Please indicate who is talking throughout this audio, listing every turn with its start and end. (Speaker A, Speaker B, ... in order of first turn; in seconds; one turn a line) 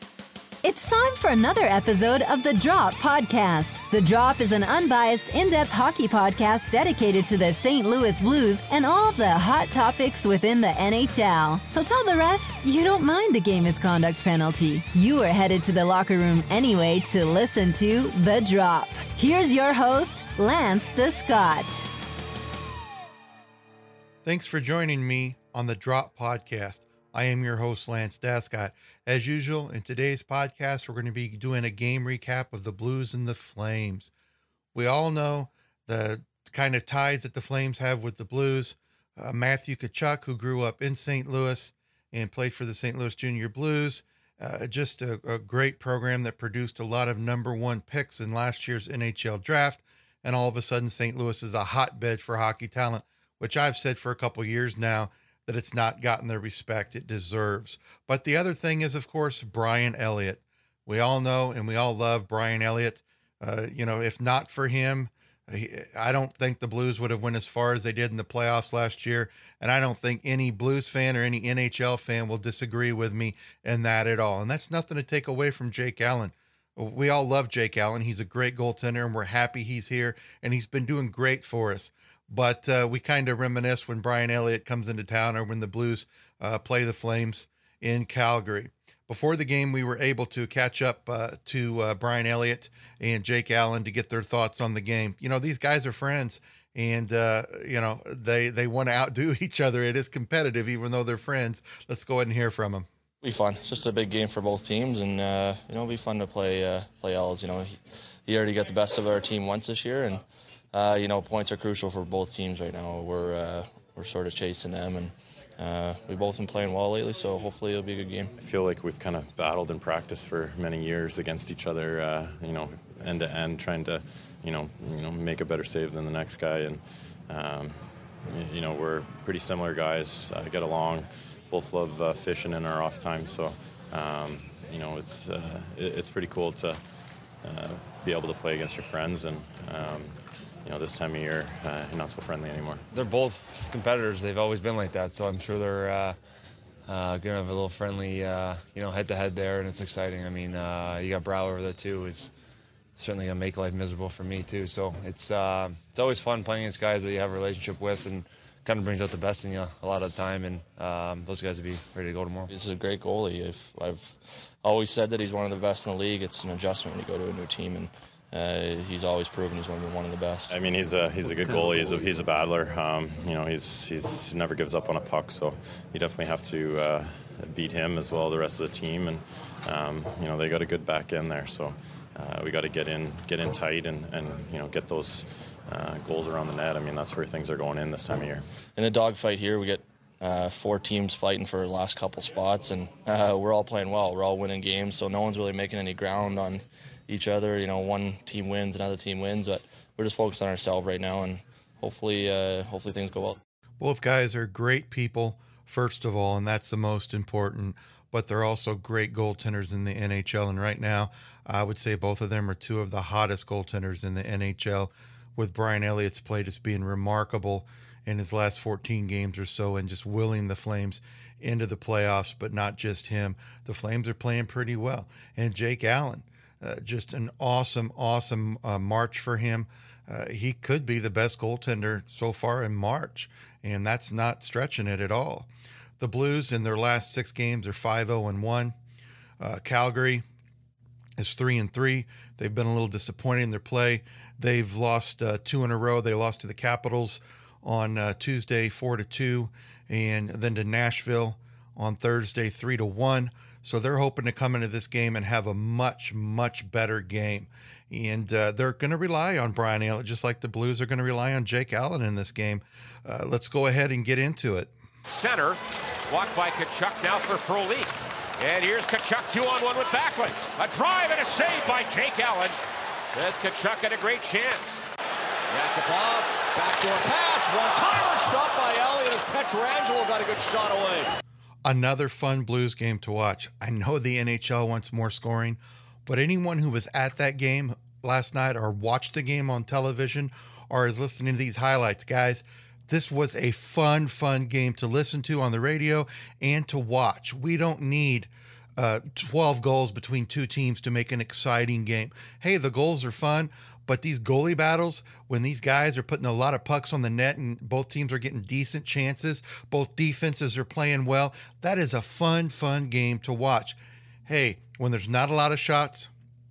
Speaker A: 0.6-21.8
Speaker B: 24.2-34.1
Speaker B: 34.7-102.9
Speaker C: 103.2-118.3
Speaker D: 118.4-136.8
Speaker D: 137.4-142.8
Speaker E: 142.9-146.2
Speaker E: 146.8-152.3
Speaker E: 153.0-162.5
Speaker C: 162.5-170.6
Speaker D: 170.5-188.4
Speaker C: 171.2-172.1
Speaker C: 188.8-203.4
Speaker B: 203.8-235.5
Speaker B: 236.0-238.8
Speaker B: 239.4-240.2
Speaker B: 241.2-264.7
Speaker F: 265.0-272.6
Speaker F: 273.1-274.8
Speaker G: 275.5-281.0
Speaker B: 281.6-316.1